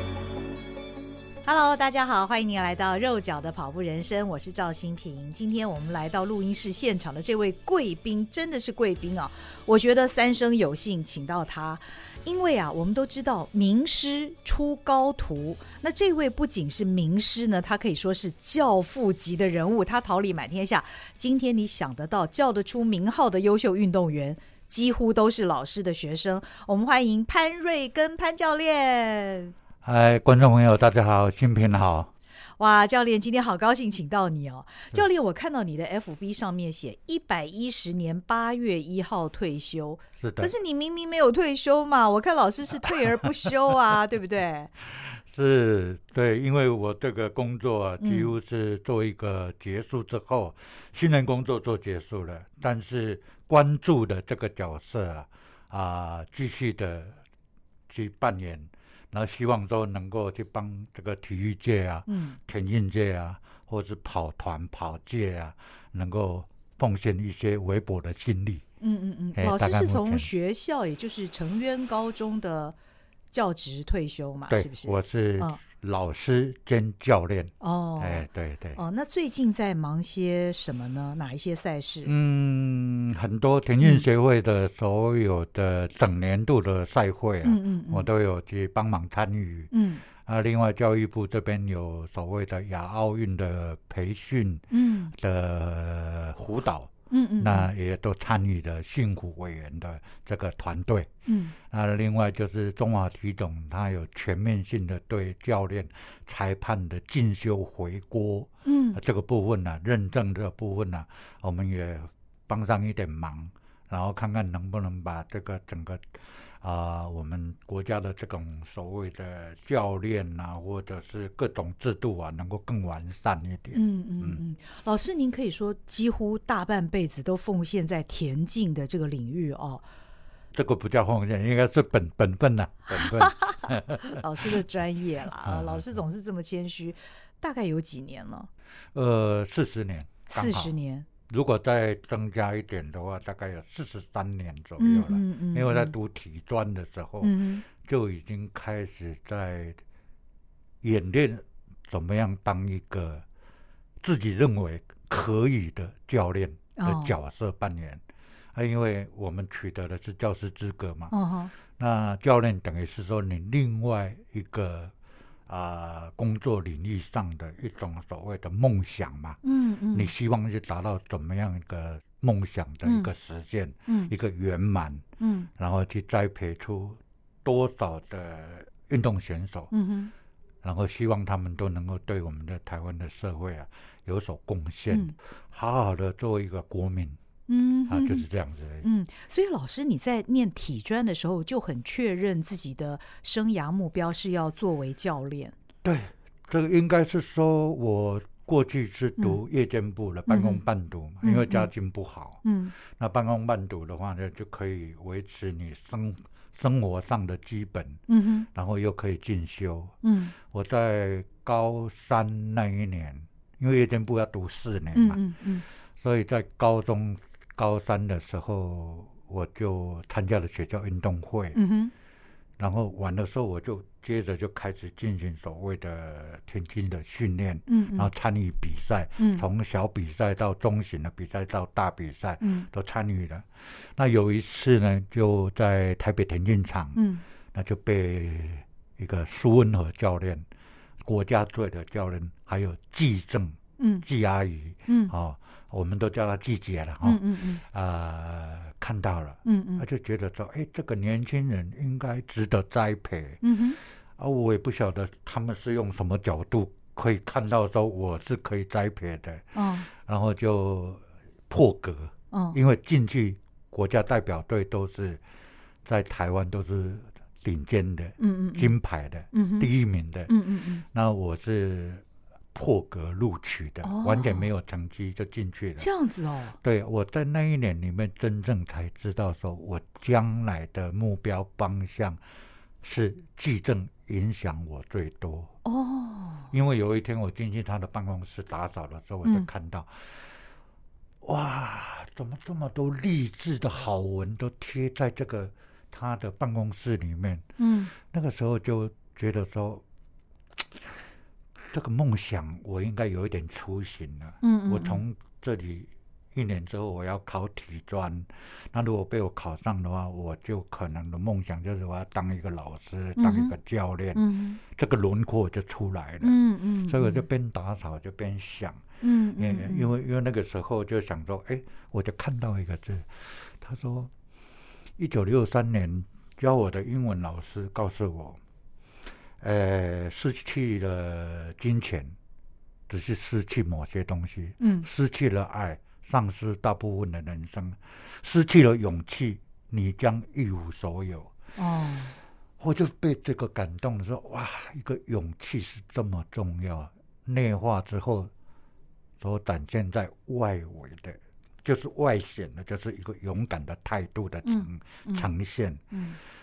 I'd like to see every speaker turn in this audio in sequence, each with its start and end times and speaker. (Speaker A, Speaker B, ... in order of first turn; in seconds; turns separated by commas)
Speaker A: 1.4-29.5, Speaker B: 29.8-32.1, Speaker A: 32.6-44.7, Speaker B: 40.2-40.5, Speaker B: 44.9-57.2, Speaker A: 48.0-48.3, Speaker B: 57.9-68.6, Speaker A: 62.1-62.4, Speaker A: 68.8-72.8, Speaker B: 69.3-70.3, Speaker A: 73.3-75.6, Speaker B: 74.5-78.8, Speaker A: 77.6-82.1, Speaker B: 82.0-101.1, Speaker A: 83.8-84.1, Speaker A: 87.4-88.1, Speaker A: 89.7-90.0, Speaker A: 94.7-95.1, Speaker A: 97.1-97.7, Speaker A: 101.3-101.5, Speaker B: 101.6-124.4, Speaker A: 108.7-109.0, Speaker A: 123.7-129.8, Speaker B: 130.5-134.6, Speaker A: 132.9-138.5, Speaker B: 135.4-136.0, Speaker B: 138.9-140.8, Speaker A: 140.3-141.1, Speaker B: 141.3-149.8, Speaker A: 144.8-145.9, Speaker A: 147.2-147.7, Speaker B: 150.8-153.2, Speaker B: 154.0-158.0, Speaker A: 156.8-157.1, Speaker B: 158.5-161.1, Speaker A: 161.1-161.5, Speaker B: 161.7-164.9, Speaker B: 165.5-169.4, Speaker A: 169.4-170.1, Speaker B: 169.9-175.1, Speaker A: 172.8-173.1, Speaker A: 173.9-174.1, Speaker A: 175.2-175.5, Speaker B: 175.6-179.7, Speaker A: 179.7-180.1, Speaker B: 180.6-187.2, Speaker A: 184.9-185.2, Speaker A: 187.5-188.2, Speaker B: 187.9-188.9, Speaker A: 188.8-195.6, Speaker B: 195.8-208.0, Speaker A: 200.3-200.6, Speaker A: 201.2-201.7, Speaker A: 202.4-202.7, Speaker A: 208.1-208.5, Speaker B: 208.5-215.2, Speaker A: 210.0-210.3, Speaker A: 214.9-215.7, Speaker B: 216.0-221.6, Speaker A: 221.5-221.9, Speaker B: 222.6-237.0, Speaker A: 227.7-228.1, Speaker A: 229.2-229.4, Speaker A: 232.4-232.7, Speaker A: 236.9-237.2, Speaker B: 237.5-240.5, Speaker B: 241.0-253.4, Speaker A: 243.8-244.1, Speaker A: 244.9-245.1, Speaker A: 247.0-247.6, Speaker A: 249.4-249.8, Speaker A: 253.4-253.8, Speaker B: 254.2-265.2, Speaker A: 259.6-259.9, Speaker A: 262.3-262.6, Speaker B: 265.9-270.3, Speaker A: 268.2-268.8, Speaker A: 269.3-269.7, Speaker A: 270.3-270.8, Speaker B: 270.9-275.9, Speaker A: 273.8-274.5, Speaker A: 275.8-276.6, Speaker B: 276.6-282.2, Speaker B: 282.8-285.5, Speaker A: 285.6-286.5, Speaker B: 286.5-290.4, Speaker B: 291.2-299.8, Speaker A: 297.6-297.9, Speaker B: 300.6-301.0, Speaker B: 301.7-316.4, Speaker A: 304.4-305.0, Speaker A: 313.2-313.5, Speaker A: 314.1-314.6, Speaker A: 316.2-317.3, Speaker B: 316.9-324.1, Speaker A: 319.0-319.9, Speaker B: 325.0-328.4, Speaker B: 329.4-332.1, Speaker B: 332.9-341.3, Speaker A: 334.6-334.9, Speaker A: 341.6-342.2, Speaker B: 342.6-348.3, Speaker B: 349.2-355.9, Speaker A: 354.4-355.3, Speaker A: 355.9-356.2